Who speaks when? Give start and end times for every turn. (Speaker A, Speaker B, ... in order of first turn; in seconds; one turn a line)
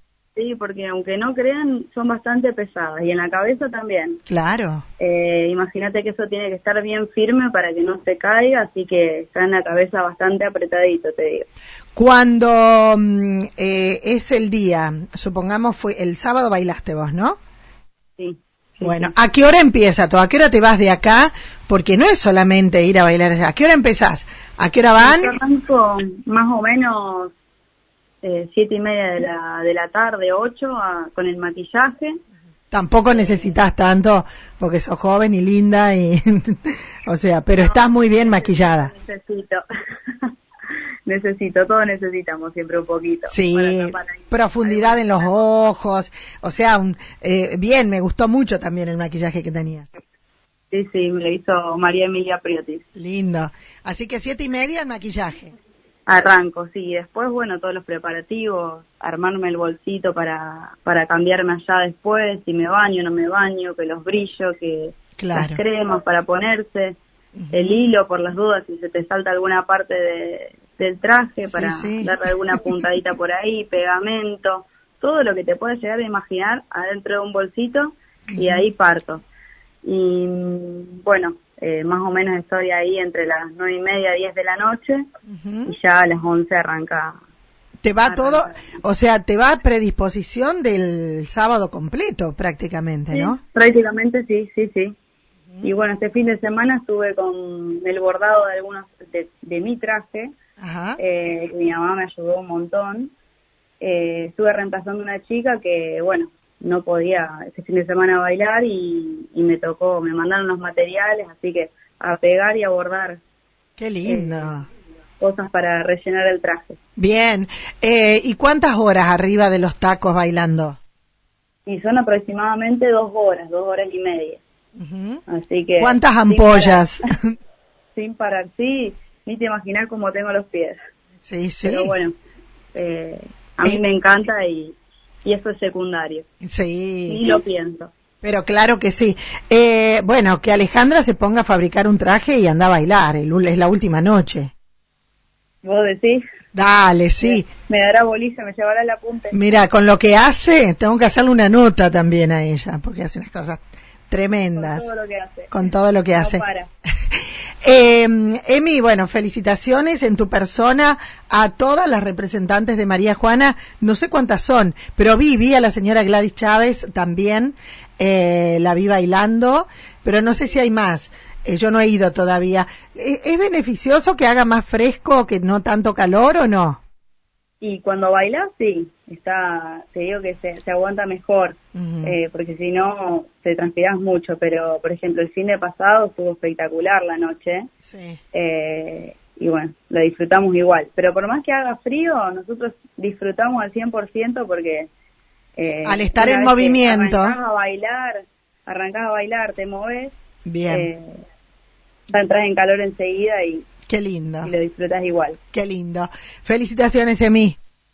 Speaker A: 0.3-4.2
Speaker B: 4.3-4.8
Speaker A: 5.0-11.5
Speaker B: 11.9-17.4
Speaker A: 18.2-19.1
Speaker B: 18.8-25.4
Speaker A: 25.0-27.3
Speaker A: 28.2-32.2
Speaker B: 32.7-38.9
Speaker A: 33.0-33.6
Speaker A: 37.6-40.3
Speaker A: 41.0-45.3
Speaker B: 43.3-49.9
Speaker A: 50.7-52.8
Speaker B: 53.0-55.5
Speaker A: 56.1-67.0
Speaker B: 65.2-65.6
Speaker B: 67.3-67.8
Speaker A: 67.5-79.2
Speaker B: 71.4-72.2
Speaker B: 78.3-78.6
Speaker A: 79.8-85.0
Speaker B: 85.3-85.7
Speaker A: 85.7-87.2
Speaker B: 87.8-93.4
Speaker A: 88.0-88.8
Speaker A: 93.1-94.9
Speaker A: 95.6-100.3
Speaker B: 100.6-101.0
Speaker A: 101.0-103.1
Speaker A: 103.8-113.2
Speaker B: 113.8-114.7
Speaker A: 114.0-114.5
Speaker A: 115.2-116.8
Speaker B: 117.0-120.8
Speaker A: 121.7-124.4
Speaker B: 124.8-125.2
Speaker A: 125.3-126.9
Speaker B: 125.8-127.3
Speaker A: 128.0-130.8
Speaker B: 131.2-131.9
Speaker A: 131.6-132.1
Speaker A: 132.7-136.2
Speaker B: 136.4-137.2
Speaker A: 137.1-137.9
Speaker B: 138.2-144.5
Speaker A: 145.6-146.2
Speaker B: 146.5-147.5
Speaker A: 147.2-149.4
Speaker B: 149.3-154.9
Speaker A: 154.5-155.5
Speaker B: 155.5-156.4
Speaker A: 156.2-156.7
Speaker B: 157.6-176.8
Speaker A: 177.6-187.7
Speaker B: 181.7-182.2
Speaker B: 187.8-188.2
Speaker A: 188.3-194.9
Speaker A: 195.6-200.2
Speaker B: 195.8-197.4
Speaker B: 200.4-200.9
Speaker A: 200.7-201.2
Speaker A: 202.1-203.7
Speaker B: 203.9-204.5
Speaker A: 204.4-205.4
Speaker B: 205.5-207.6